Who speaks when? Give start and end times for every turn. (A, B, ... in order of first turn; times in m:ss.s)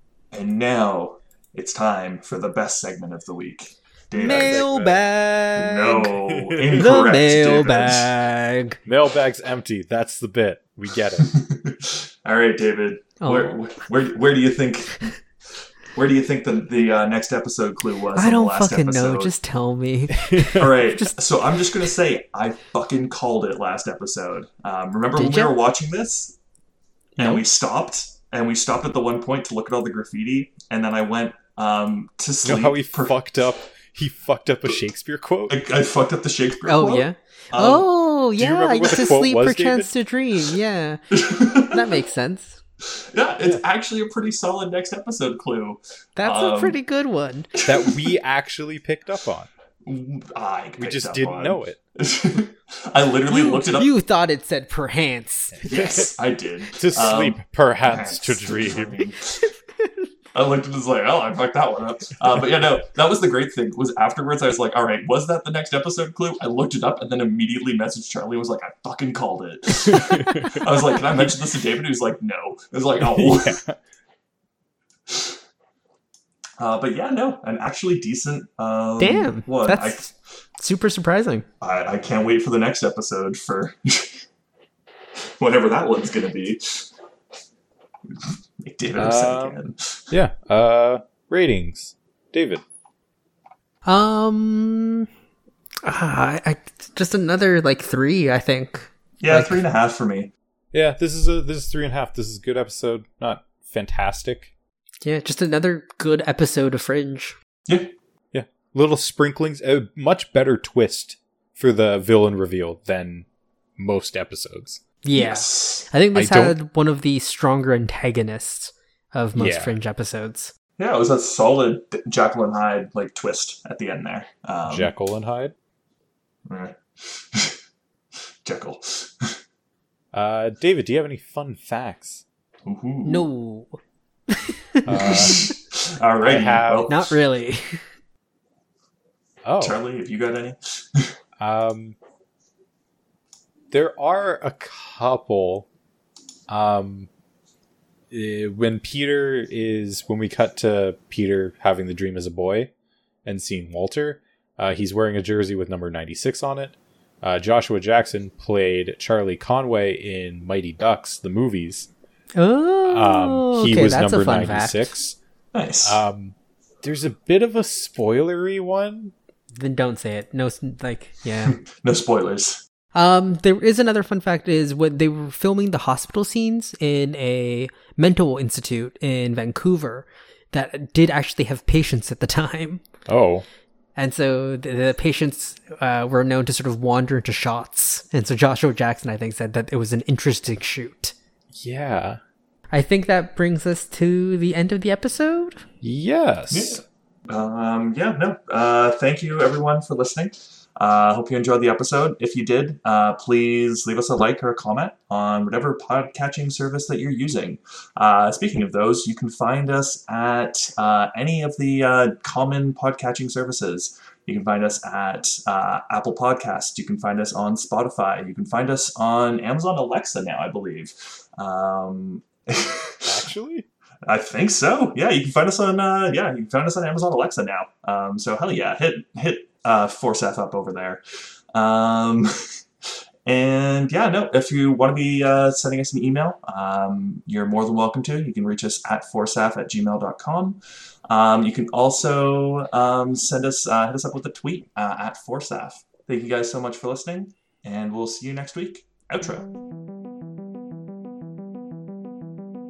0:00.3-0:04.6 A
0:04.1-0:06.1 B
0:04.4-0:05.1 C
0:05.6-0:08.1 A
0:06.2-0:06.9 C
0:06.7-0:08.8 B
0:08.8-0:11.3 C
0:11.2-0:15.1 A
0:13.2-0:13.6 B
0:15.9-0:19.3 A
0:18.1-0:21.1 B
0:20.2-0:20.7 C
0:20.5-0:26.4 A
0:25.2-0:25.5 B
0:27.2-0:33.2 A
0:32.4-0:35.6 C
0:35.5-0:37.9 A
0:36.7-0:42.6 B
0:38.4-0:39.9 C
0:41.1-0:41.9 A
0:43.0-0:46.8 A
0:46.2-0:47.5 B
0:47.6-0:48.1 A
0:47.6-0:49.5 C
0:49.8-0:53.9 A
0:50.8-0:51.8 C
0:53.3-0:55.6 B
0:55.5-0:56.1 C
0:55.6-0:59.4 A
0:56.7-0:59.0 C
0:59.4-0:59.9 B
1:00.3-1:13.6 A
1:09.7-1:10.7 C
1:13.0-1:13.8 C
1:15.1-1:15.4 A
1:16.6-1:20.1 A
1:19.0-1:21.4 B
1:21.6-1:24.2 A
1:25.2-1:26.9 A
1:28.1-1:30.1 A
1:28.9-1:32.6 C
1:33.8-1:35.1 B
1:35.8-1:39.6 B
1:39.2-1:40.3 A
1:40.7-1:44.5 C
1:45.0-1:47.3 B
1:48.3-1:53.2 C
1:53.8-1:54.8 C
1:55.0-2:00.5 B
1:55.1-1:55.9 A
1:56.1-1:56.6 C
1:59.4-1:59.8 C
2:00.8-2:04.9 A
2:04.7-2:05.5 C
2:06.4-2:07.6 A
2:08.4-2:09.4 A
2:10.1-2:12.2 C
2:12.6-2:13.3 A
2:13.0-2:13.8 B
2:14.3-2:15.2 B
2:14.8-2:15.5 C
2:14.9-2:17.2 A
2:16.2-2:16.9 C
2:16.9-2:17.9 B
2:19.4-2:19.8 C
2:19.6-2:21.1 A
2:21.4-2:22.0 C
2:23.7-2:25.7 C
2:26.5-2:27.1 C
2:28.1-2:32.7 C
2:33.2-2:41.9 C
2:42.4-2:44.9 B
2:42.9-2:45.2 C
2:45.5-2:46.0 A
2:45.8-2:49.1 C
2:49.5-2:51.6 B
2:51.4-2:52.6 A
2:52.9-3:02.8 B
3:03.1-3:03.4 C
3:04.0-3:11.1 B
3:11.5-3:12.2 C
3:12.7-3:15.6 B
3:15.8-3:16.8 C
3:16.5-3:43.2 A
3:43.0-3:43.6 C
3:44.0-3:51.0 A
3:51.5-3:52.3 A
3:53.2-4:09.5 A